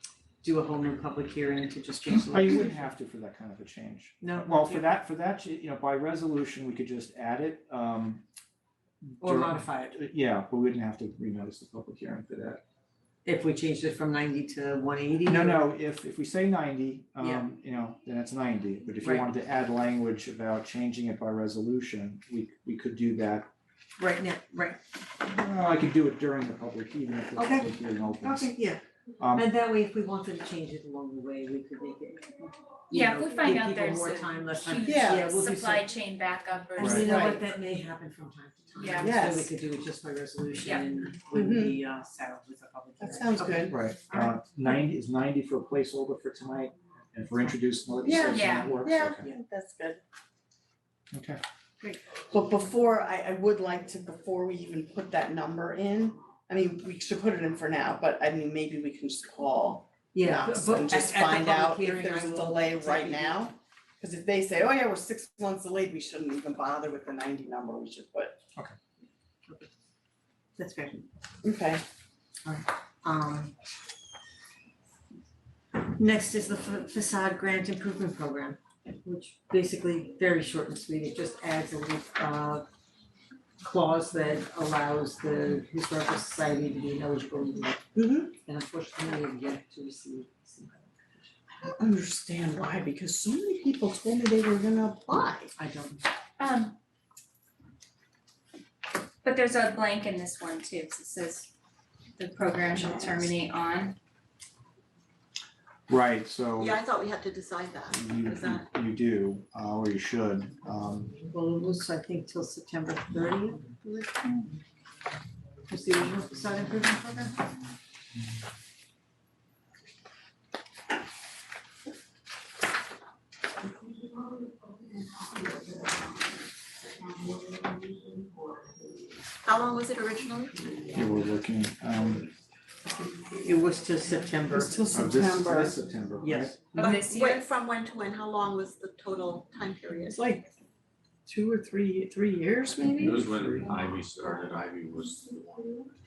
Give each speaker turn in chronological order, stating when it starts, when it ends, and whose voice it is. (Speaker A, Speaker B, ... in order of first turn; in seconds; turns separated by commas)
Speaker A: 0.4-2.9, Speaker B: 2.1-8.2, Speaker A: 4.2-5.0, Speaker B: 9.0-12.6, Speaker A: 9.2-10.0, Speaker A: 13.2-15.7, Speaker B: 15.2-23.5, Speaker A: 17.2-17.5, Speaker A: 19.0-19.3, Speaker A: 24.0-24.8, Speaker B: 25.3-28.5, Speaker A: 27.4-28.8, Speaker B: 29.2-29.5, Speaker A: 29.3-35.9, Speaker C: 32.9-37.4, Speaker D: 34.9-35.2, Speaker B: 36.8-37.1, Speaker A: 36.8-44.4, Speaker D: 36.9-37.3, Speaker C: 38.8-39.2, Speaker D: 39.0-39.5, Speaker C: 40.6-40.9, Speaker D: 41.3-41.7, Speaker D: 43.0-43.8, Speaker B: 43.7-49.2, Speaker D: 48.0-50.0, Speaker C: 48.1-48.8, Speaker B: 51.1-51.4, Speaker A: 51.8-52.2, Speaker D: 52.3-68.4, Speaker A: 60.1-63.5, Speaker A: 70.6-71.0, Speaker D: 71.4-71.8, Speaker A: 72.4-73.5, Speaker A: 75.8-82.7, Speaker A: 83.6-91.3, Speaker D: 87.9-88.3, Speaker D: 91.6-95.5, Speaker A: 95.5-96.0, Speaker C: 96.4-96.8, Speaker C: 99.2-101.5, Speaker C: 102.2-104.0, Speaker B: 105.9-106.8, Speaker E: 106.6-108.7, Speaker B: 107.9-111.2, Speaker A: 111.3-114.0, Speaker A: 115.7-117.4, Speaker E: 129.4-130.9, Speaker B: 130.9-132.3, Speaker A: 133.3-134.8, Speaker D: 134.5-135.8, Speaker B: 134.9-136.6, Speaker A: 136.2-136.9, Speaker E: 136.8-140.3, Speaker C: 136.8-137.5, Speaker D: 140.1-140.5, Speaker D: 141.2-143.9, Speaker F: 142.9-145.8